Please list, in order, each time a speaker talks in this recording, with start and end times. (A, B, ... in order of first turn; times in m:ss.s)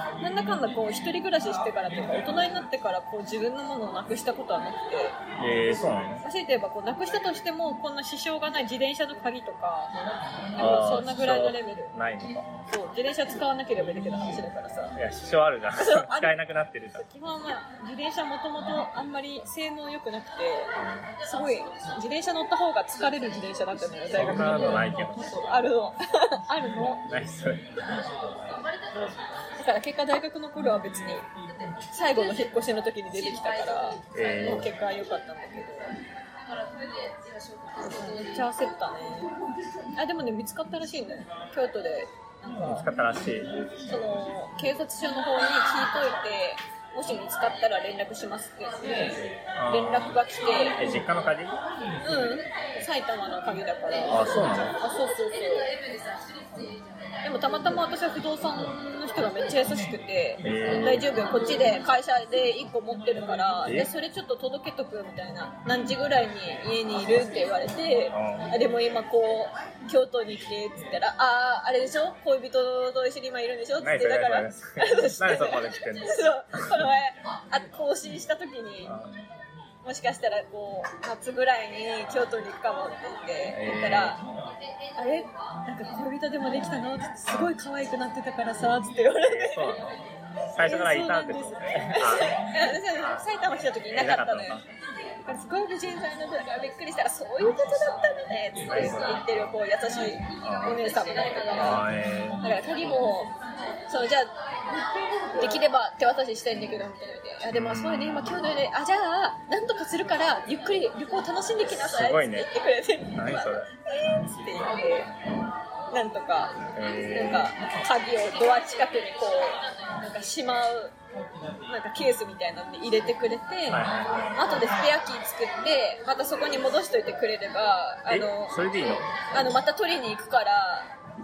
0:00.2-0:05.2 A
0:05.4-0:06.2 B
0:06.2-0:10.0 A
0:10.6-0:11.9 A
0:10.6-0:12.5 B
0:12.7-0:15.0 A
0:15.0-0:17.0 B
0:15.8-0:16.3 A
0:17.0-0:27.1 A
0:20.8-0:21.1 B
0:24.1-0:25.3 B
0:27.1-0:27.8 B
0:29.0-0:31.3 A
0:31.9-0:35.9 A
0:34.1-0:34.7 B
0:37.8-0:39.3 A
0:40.0-0:42.9 A
0:42.6-0:43.5 B
0:43.8-0:50.8 A
0:49.6-0:50.2 B
0:50.8-0:51.6 B
0:52.0-0:55.7 A
0:54.1-0:54.8 B
0:57.2-1:18.9 A
1:00.4-1:01.1 B
1:08.1-1:08.5 B
1:13.8-1:16.8 B
1:18.8-1:19.2 B
1:19.8-1:24.2 A
1:23.5-1:24.2 B
1:25.0-1:29.8 A
1:29.2-1:30.0 B
1:30.5-1:33.2 B
1:30.6-1:34.6 A
1:33.9-1:34.6 B
1:35.2-1:41.9 A
1:38.6-1:39.5 B
1:40.4-1:40.8 B
1:41.6-1:42.4 B
1:42.4-1:43.3 A
1:43.9-1:55.1 A
1:47.5-1:48.4 B
1:51.7-1:52.5 B
1:53.1-1:53.7 B
1:55.9-2:01.0 A
1:56.7-1:57.5 B
2:01.6-2:08.6 A
2:03.7-2:04.4 B
2:08.1-2:09.1 B
2:09.3-2:10.9 A